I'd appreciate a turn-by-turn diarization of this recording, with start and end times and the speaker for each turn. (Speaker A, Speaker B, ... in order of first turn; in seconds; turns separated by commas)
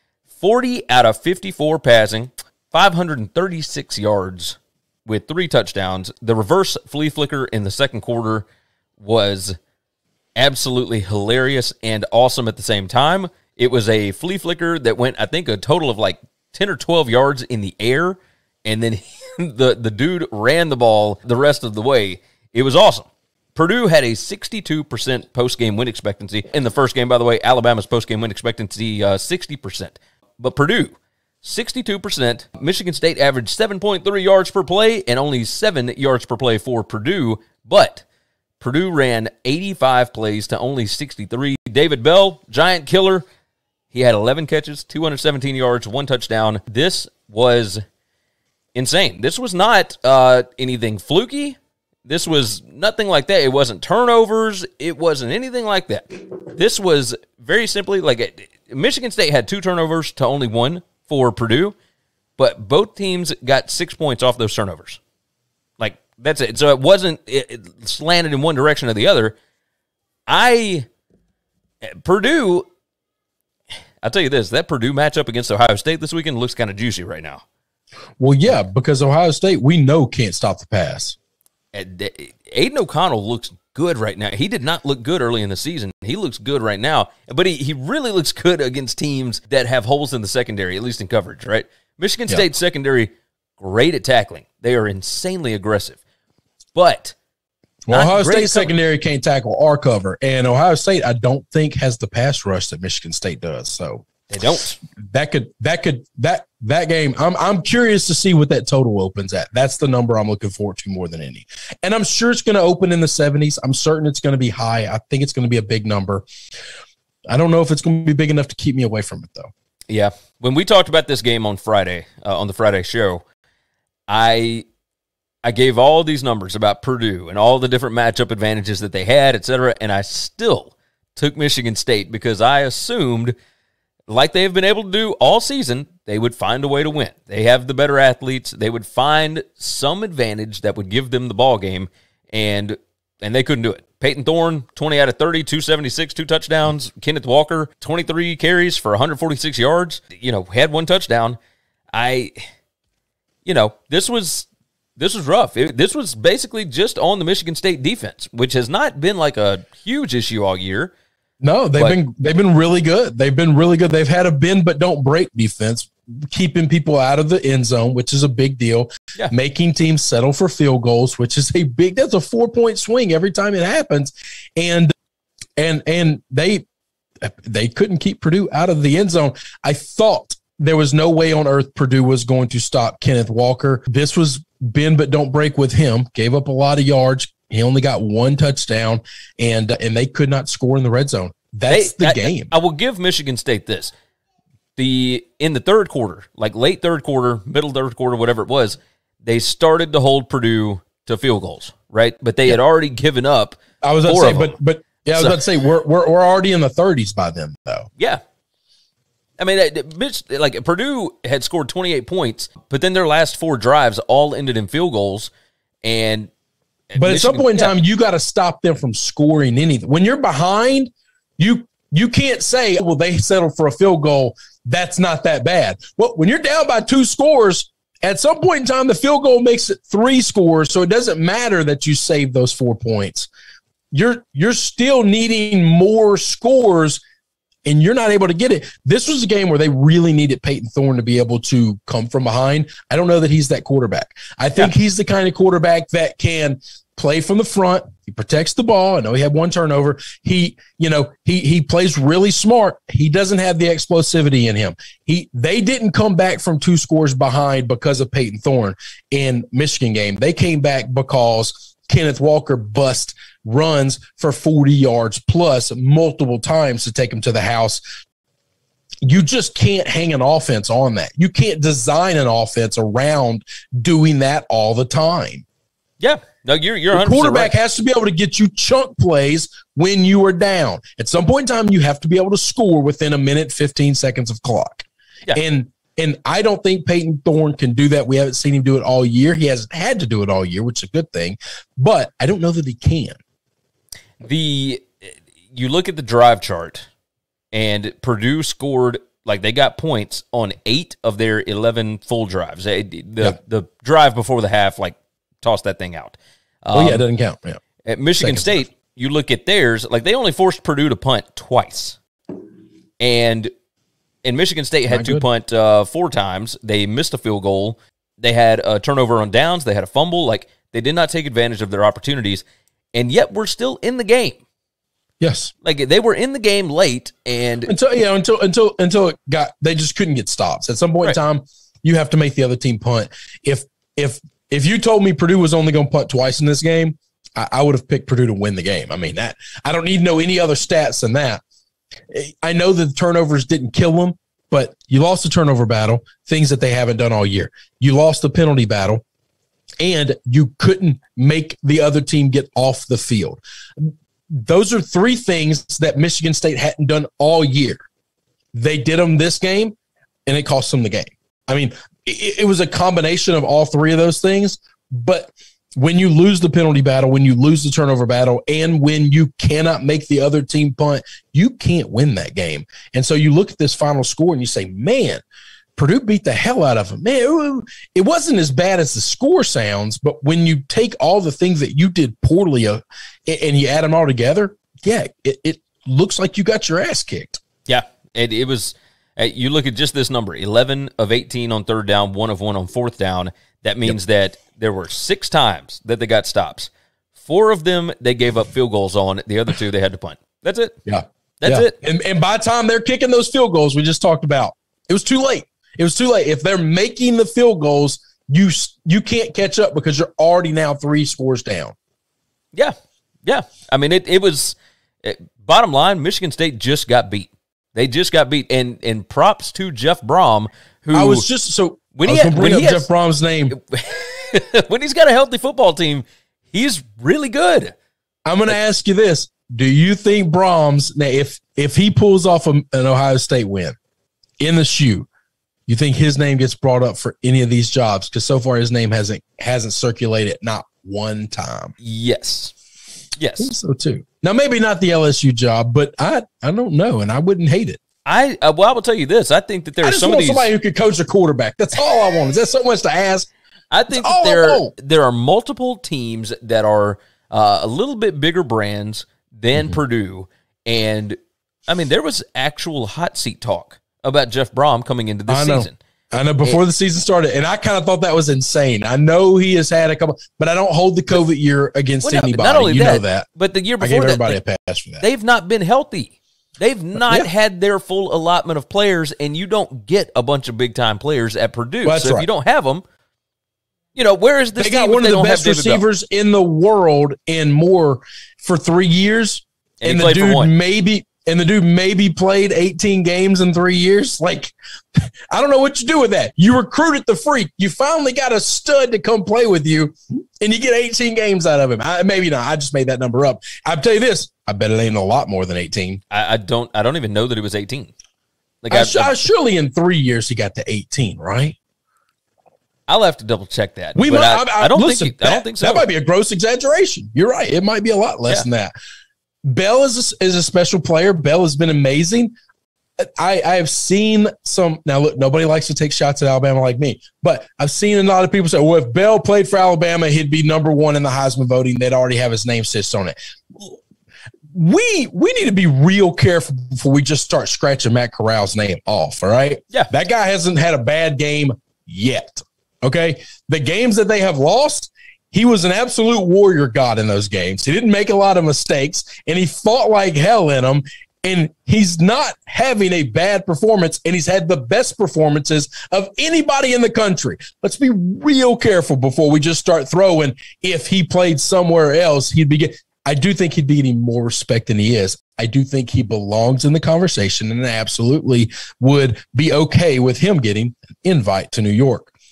Speaker A: 0.4-8.5, Speaker A: 9.0-9.6, Speaker A: 10.4-38.0, Speaker A: 38.6-43.2, Speaker A: 43.9-47.8, Speaker A: 48.8-61.8, Speaker A: 62.4-65.0, Speaker A: 65.8-69.3, Speaker A: 70.3-70.9, Speaker A: 71.8-72.7, Speaker A: 74.0-77.4, Speaker B: 78.2-81.2, Speaker A: 81.7-96.0, Speaker A: 96.8-97.2, Speaker B: 97.9-104.1, Speaker A: 97.9-98.7, Speaker A: 104.3-104.8, Speaker B: 105.1-116.2, Speaker B: 117.3-119.5, Speaker A: 119.9-123.2, Speaker A: 124.1-124.7, Speaker A: 125.4-133.3, Speaker A: 134.1-151.4, Speaker A: 151.9-152.3, Speaker A: 153.4-160.9, Speaker B: 161.4-174.9, Speaker A: 161.8-162.1, Speaker B: 175.6-176.6, Speaker B: 177.2-192.5, Speaker A: 191.7-193.9, Speaker A: 194.8-204.6, Speaker B: 203.8-207.9, Speaker A: 209.4-215.3, Speaker A: 215.8-216.3, Speaker A: 216.9-217.7, Speaker B: 217.0-233.3, Speaker B: 233.9-237.0, Speaker B: 237.7-267.8, Speaker B: 269.0-275.4, Speaker A: 276.0-277.5, Speaker B: 276.9-293.2, Speaker A: 294.2-296.9, Speaker A: 297.5-307.1, Speaker B: 306.7-307.6, Speaker A: 307.9-312.0, Speaker B: 308.2-308.7, Speaker A: 313.0-313.5, Speaker A: 314.2-322.4, Speaker B: 314.9-315.2, Speaker A: 322.9-324.4, Speaker B: 325.2-325.5, Speaker A: 325.6-327.7, Speaker B: 327.7-341.4, Speaker B: 342.1-349.0, Speaker B: 349.8-357.8, Speaker B: 358.5-359.8, Speaker B: 360.3-375.2, Speaker B: 375.8-387.4, Speaker A: 387.7-400.8, Speaker B: 400.9-411.7, Speaker A: 401.4-401.7, Speaker A: 413.2-421.3, Speaker B: 420.9-423.6, Speaker A: 421.9-422.9, Speaker A: 423.5-427.7, Speaker B: 428.3-433.8, Speaker B: 434.4-435.1, Speaker B: 435.7-441.7, Speaker A: 441.8-442.6, Speaker A: 443.2-443.5, Speaker B: 443.4-447.8, Speaker A: 448.1-450.5, Speaker B: 449.8-453.3, Speaker A: 453.7-461.2, Speaker B: 453.9-454.7, Speaker A: 461.7-465.8, Speaker B: 465.3-473.3, Speaker A: 472.0-474.4, Speaker B: 473.8-475.1, Speaker A: 475.0-482.8, Speaker B: 477.0-477.3, Speaker B: 481.8-482.3, Speaker A: 483.9-485.8, Speaker B: 484.6-506.0, Speaker A: 489.8-490.5, Speaker A: 506.1-507.9, Speaker A: 508.6-509.2, Speaker B: 508.7-511.6, Speaker A: 512.9-515.9, Speaker B: 514.0-518.7, Speaker B: 519.5-522.3, Speaker B: 523.0-533.7, Speaker B: 534.5-572.1